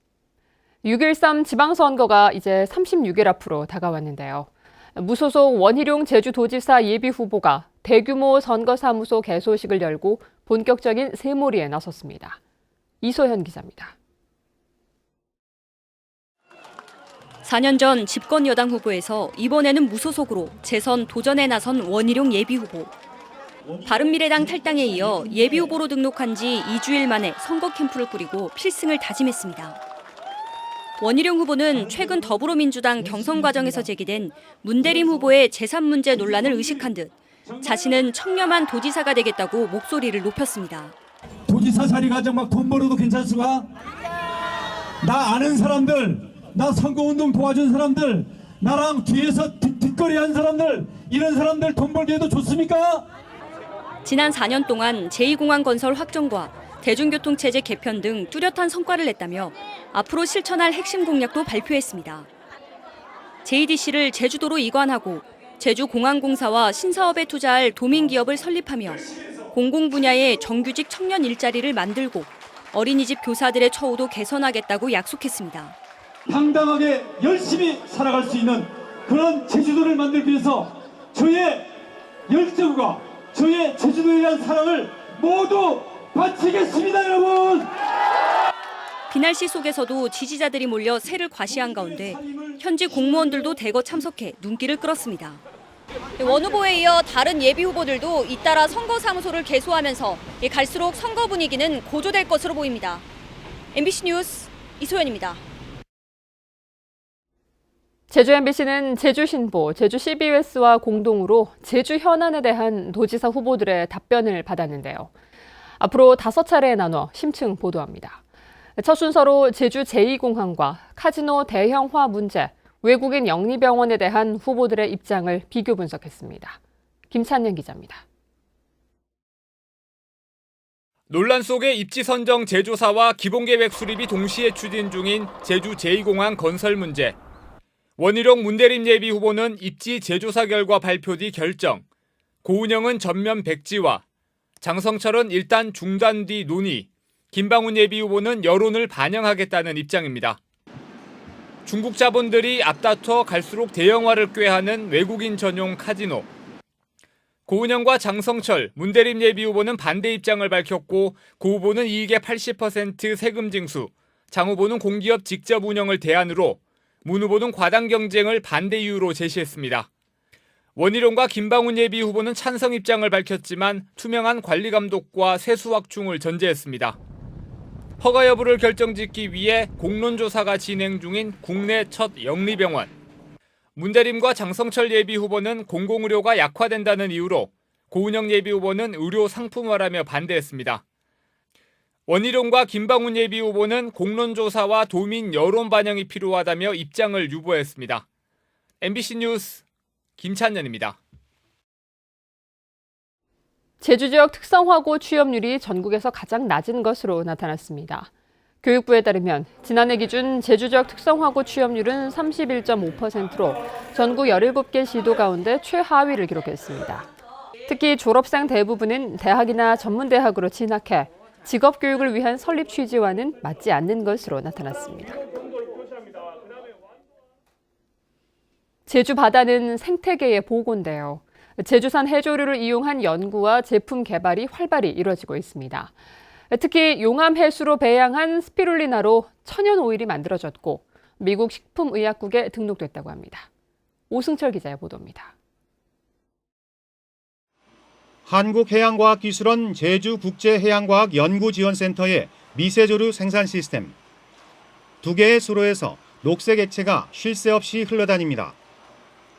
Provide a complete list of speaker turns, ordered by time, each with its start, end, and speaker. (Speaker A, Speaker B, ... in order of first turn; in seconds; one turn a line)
Speaker A: 0.8-12.4
Speaker A: 13.0-13.9
Speaker B: 17.4-22.9
Speaker B: 23.8-29.8
Speaker B: 31.0-40.9
Speaker C: 41.5-43.6
Speaker C: 45.0-53.0
Speaker B: 54.0-62.3
Speaker B: 63.4-75.8
Speaker C: 76.3-81.7
Speaker C: 82.3-87.7
Speaker B: 89.1-95.4
Speaker C: 92.0-92.6
Speaker B: 96.2-103.0
Speaker B: 103.7-105.4
Speaker A: 108.1-115.1
Speaker A: 115.8-118.2
Speaker A: 118.8-126.6
Speaker A: 127.1-128.0
Speaker D: 131.1-137.2
Speaker D: 138.0-141.8
Speaker D: 142.4-144.0
Speaker D: 144.6-150.4
Speaker D: 151.7-156.3
Speaker D: 157.5-169.9
Speaker D: 170.8-177.0
Speaker D: 178.0-182.9
Speaker D: 183.8-190.8
Speaker D: 192.1-198.0
Speaker D: 198.8-199.6
Speaker D: 200.2-201.0
Speaker A: 203.8-208.1
Speaker A: 208.6-217.1
Speaker A: 217.7-225.2
Speaker A: 228.8-235.9
Speaker A: 236.5-243.5
Speaker A: 244.1-245.3
Speaker E: 248.2-253.9
Speaker E: 255.0-258.5